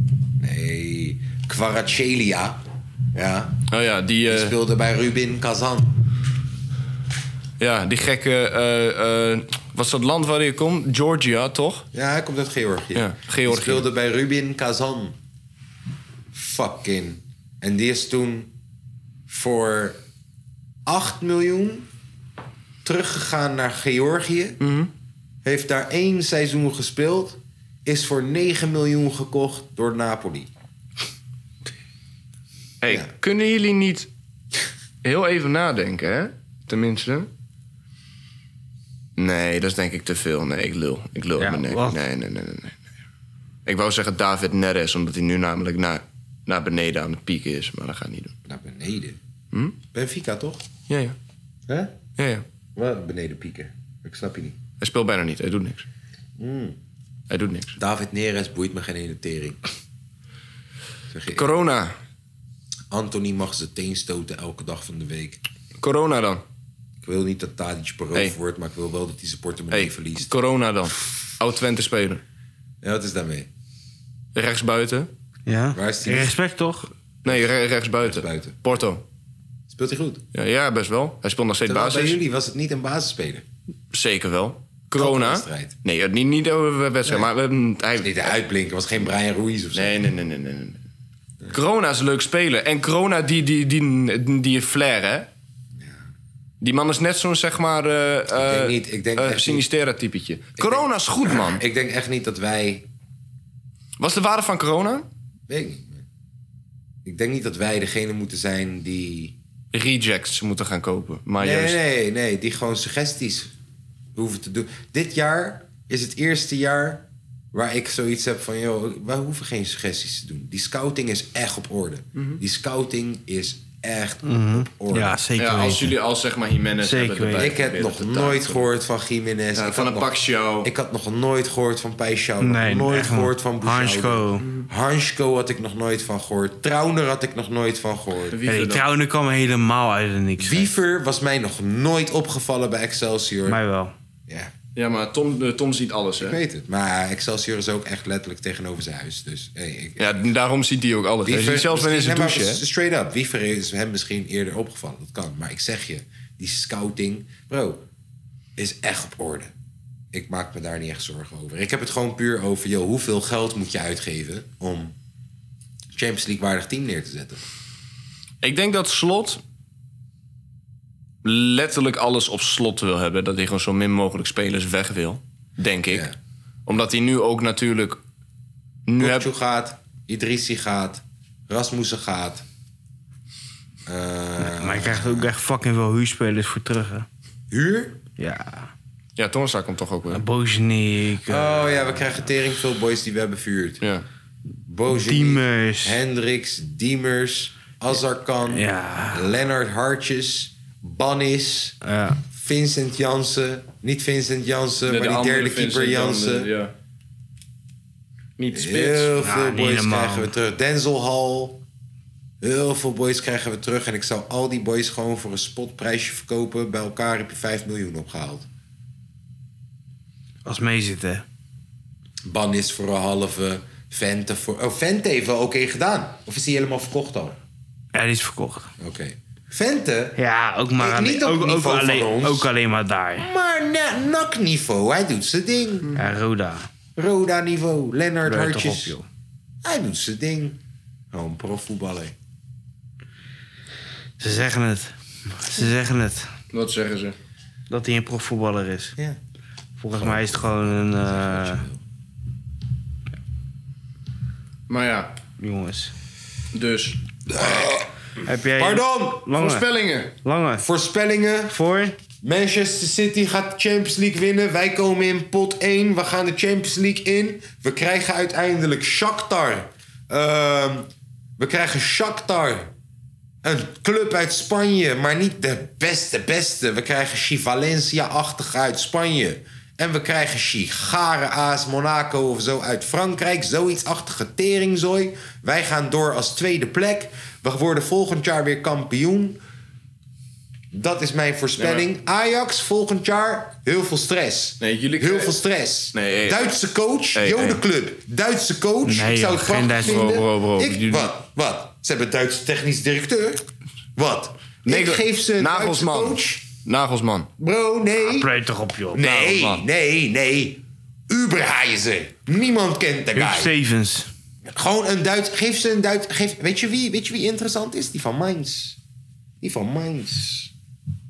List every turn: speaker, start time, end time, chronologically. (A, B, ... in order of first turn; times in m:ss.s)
0:00.4-0:02.6 A
0:03.1-0:03.6 A
0:03.7-0:04.6 B
0:04.3-0:06.0 A
0:07.6-0:11.9 B
0:11.9-0:15.2 A
0:13.0-0:13.9 B
0:16.3-0:18.5 A
0:19.3-0:20.0 A
0:20.9-0:21.9 A
0:22.8-0:24.6 A
0:24.6-0:24.9 B
0:25.4-0:30.5 A
0:32.8-0:34.1 B
0:35.0-0:37.3 B
0:39.2-0:42.8 B
0:41.4-0:42.0 C
0:43.7-0:48.3 B
0:48.5-0:49.2 A
0:49.5-0:49.8 B
0:49.9-0:50.7 A
0:50.9-0:51.2 B
0:51.7-0:52.0 A
0:52.2-0:52.4 B
0:52.8-0:54.6 A
0:54.8-0:55.9 B
0:56.4-0:56.8 A
0:57.3-0:57.8 B
0:57.8-0:59.6 A
1:01.1-1:01.5 A
1:01.4-1:01.9 B
1:02.9-1:05.4 A
1:05.8-1:06.4 B
1:07.0-1:10.3 A
1:09.7-1:12.2 B
1:12.8-1:13.5 A
1:14.4-1:15.1 B
1:15.5-1:16.9 C
1:15.7-1:16.3 A
1:17.2-1:19.0 B
1:18.0-1:18.6 A
1:19.7-1:20.2 A
1:20.3-1:22.2 B
1:21.7-1:23.4 A
1:23.9-1:28.3 B
1:25.0-1:25.8 A
1:28.0-1:30.0 A
1:29.7-1:30.8 B
1:31.5-1:35.3 B
1:36.6-1:41.6 B
1:38.3-1:39.7 A
1:40.6-1:42.9 A
1:44.0-1:45.1 B
1:45.5-1:46.0 A
1:47.0-1:49.4 A
1:49.7-1:51.8 B
1:51.4-1:53.5 A
1:54.2-2:05.2 A
2:02.2-2:02.4 B
2:04.2-2:06.0 C
2:05.4-2:08.7 B
2:06.8-2:07.5 C
2:07.4-2:18.4 A
2:09.6-2:10.7 B
2:12.4-2:14.4 C
2:18.3-2:18.8 B
2:18.5-2:20.7 C
2:20.4-2:23.6 A
2:23.5-2:23.9 C
2:24.8-2:26.4 B
2:26.2-2:30.2 A
2:30.0-2:32.6 B
2:31.2-2:37.8 A
2:38.6-2:39.5 A
2:40.1-2:45.0 A
2:45.9-2:47.4 A
2:48.4-2:49.4 B
2:51.2-2:56.1 B
2:55.9-2:56.2 A
2:56.7-2:58.0 B
2:58.9-2:59.3 B
2:59.0-3:02.4 A
3:03.9-3:05.3 A
3:04.4-3:07.1 C
3:07.5-3:08.0 A
3:08.2-3:08.7 C
3:09.2-3:10.2 B
3:10.1-3:12.2 C
3:11.3-3:13.8 A
3:14.7-3:21.8 A
3:14.9-3:16.0 C
3:18.5-3:19.3 C
3:21.8-3:22.2 C
3:22.3-3:26.5 A
3:24.8-3:26.7 B
3:28.4-3:29.2 B
3:28.5-3:31.6 A
3:29.2-3:30.3 C
3:32.4-3:38.5 A
3:40.4-3:41.2 C
3:42.2-3:47.4 A
3:47.9-3:48.7 C
3:48.8-3:50.2 A
3:50.2-3:53.3 C
3:50.8-3:52.5 A
3:53.2-3:56.0 A
3:56.0-3:56.7 C
3:57.0-3:59.0 A
3:58.3-3:59.1 C
3:59.6-4:00.6 A
4:01.1-4:02.2 A
4:04.2-4:06.3 C
4:06.5-4:07.2 B
4:07.7-4:09.0 C
4:09.8-4:11.6 C
4:09.9-4:11.8 A
4:14.7-4:15.1 B
4:15.4-4:15.9 C
4:16.5-4:17.0 B
4:17.3-4:17.9 A
4:18.2-4:19.7 C
4:18.5-4:19.3 A
4:19.3-4:20.1 B
4:20.2-4:20.7 C
4:20.6-4:21.6 A
4:21.5-4:22.0 C
4:22.2-4:32.7 A
4:33.4-4:49.4 A
4:50.7-5:03.4 A
4:51.6-4:51.9 B
4:54.6-4:55.4 B
4:55.9-4:56.5 B
4:57.2-4:57.6 B
4:58.8-5:00.1 C
4:59.8-5:01.1 B
5:04.0-5:06.4 A
5:04.7-5:07.3 B
5:07.4-5:08.3 A
5:08.0-5:09.1 C
5:08.9-5:13.5 A
5:09.0-5:09.6 B
5:13.1-5:14.1 C
5:14.4-5:18.8 A
5:19.4-5:20.5 A